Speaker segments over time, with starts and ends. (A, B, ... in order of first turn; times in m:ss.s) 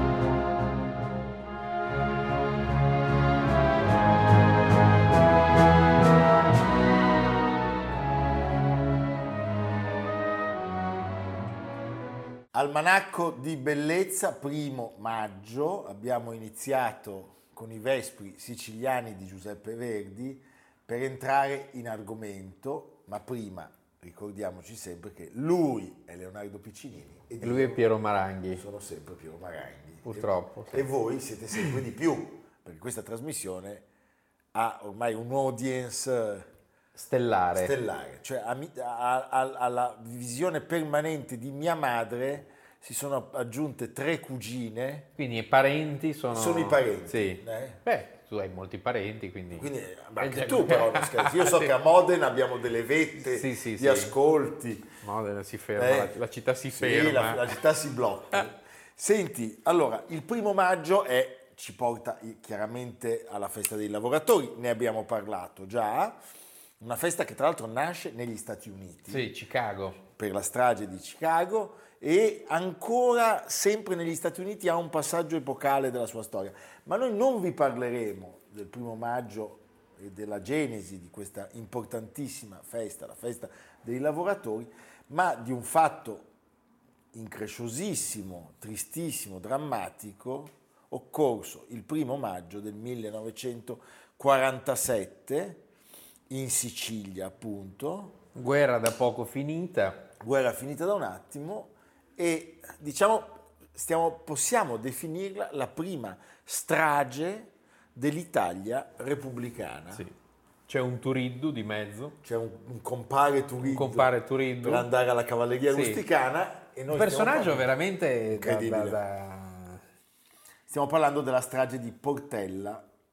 0:12.5-0:27.8 A
0:27.4-0:28.6 B
0:28.5-0:33.8 A
0:30.0-0:30.9 B
0:34.5-0:36.5 A
0:36.9-0:37.7 B
0:37.5-0:45.1 A
0:45.2-0:51.7 B
0:46.3-0:47.8 A
0:49.5-0:54.9 A
0:53.2-0:54.1 B
0:55.0-0:57.6 B
0:55.8-0:56.2 A
0:56.7-1:06.2 A
1:06.8-1:09.3 A
1:09.1-1:10.0 B
1:10.1-1:26.3 A
1:27.1-1:35.6 A
1:36.3-1:38.2 A
1:38.3-1:40.1 B
1:40.2-1:50.0 A
1:50.7-1:52.2 B
1:52.2-1:54.1 A
1:53.6-1:54.9 B
1:54.6-1:57.7 A
1:55.7-1:56.0 B
1:56.9-1:59.8 B
1:58.3-1:59.0 A
2:00.7-2:02.8 A